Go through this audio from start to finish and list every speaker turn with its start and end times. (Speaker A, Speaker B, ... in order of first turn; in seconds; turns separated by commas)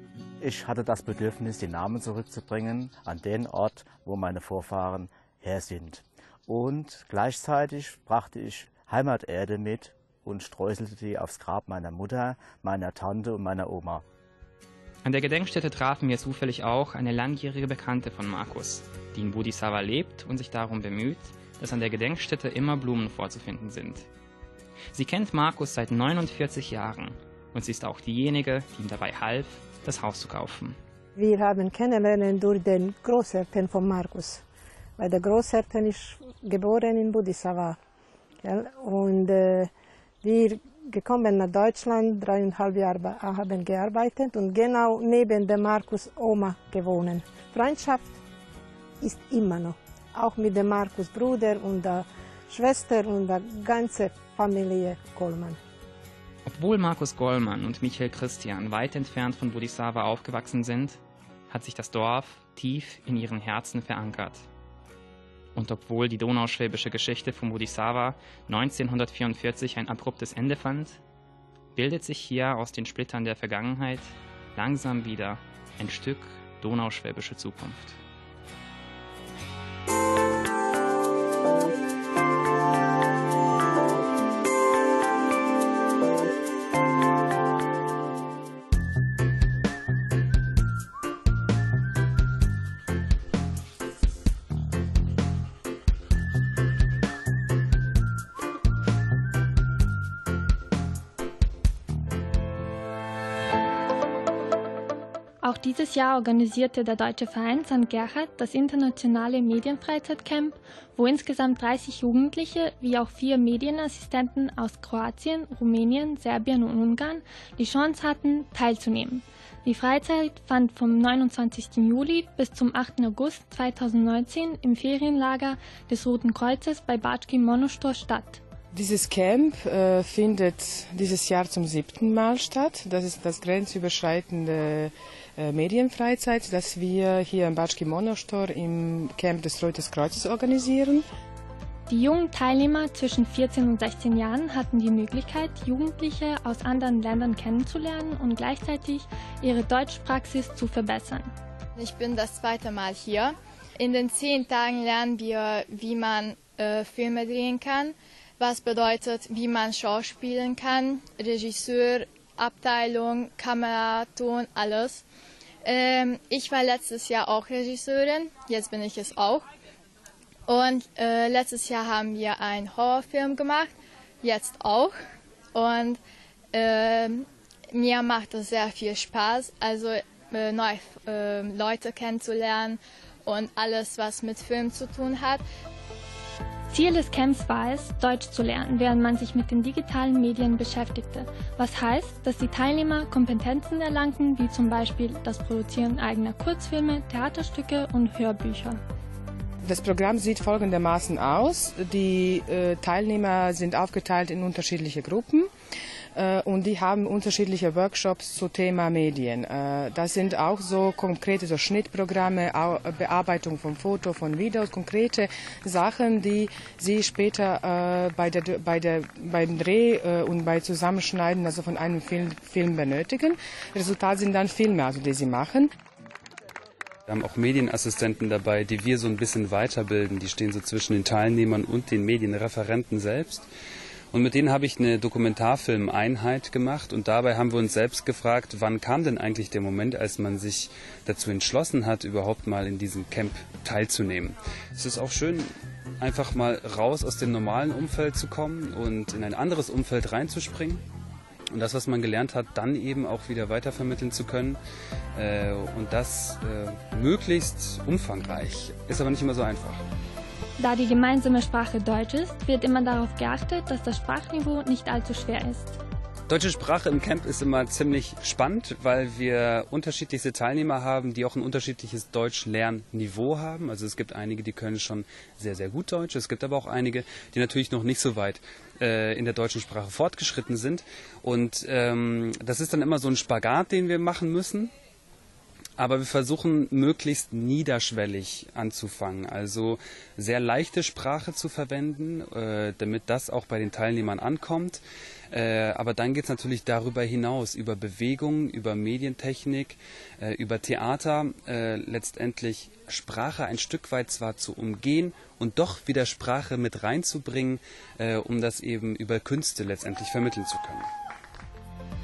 Speaker A: 0.4-14.0, Speaker B: 15.0-24.1, Speaker B: 24.9-30.8, Speaker C: 31.1-34.4, Speaker C: 35.0-37.8, Speaker C: 38.4-39.7, Speaker C: 40.2-48.1, Speaker C: 49.0-55.6, Speaker B: 56.5-61.0, Speaker B: 61.5-64.4, Speaker B: 65.6-71.0, Speaker B: 71.8-78.0, Speaker D: 105.4-128.4, Speaker E: 128.7-141.1, Speaker D: 141.9-151.3, Speaker F: 151.8-165.0, Speaker F: 165.6-169.5, Speaker F: 170.5-175.0, Speaker F: 175.5-176.0, Speaker F: 176.5-185.4, Speaker D: 186.7-198.8, Speaker E: 199.6-205.5, Speaker E: 206.2-225.7, Speaker G: 227.1-233.5, Speaker G: 234.1-250.8, Speaker G: 251.5-254.6, Speaker G: 255.2-259.8, Speaker D: 260.6-265.8, Speaker G: 266.3-284.7, Speaker G: 285.8-310.9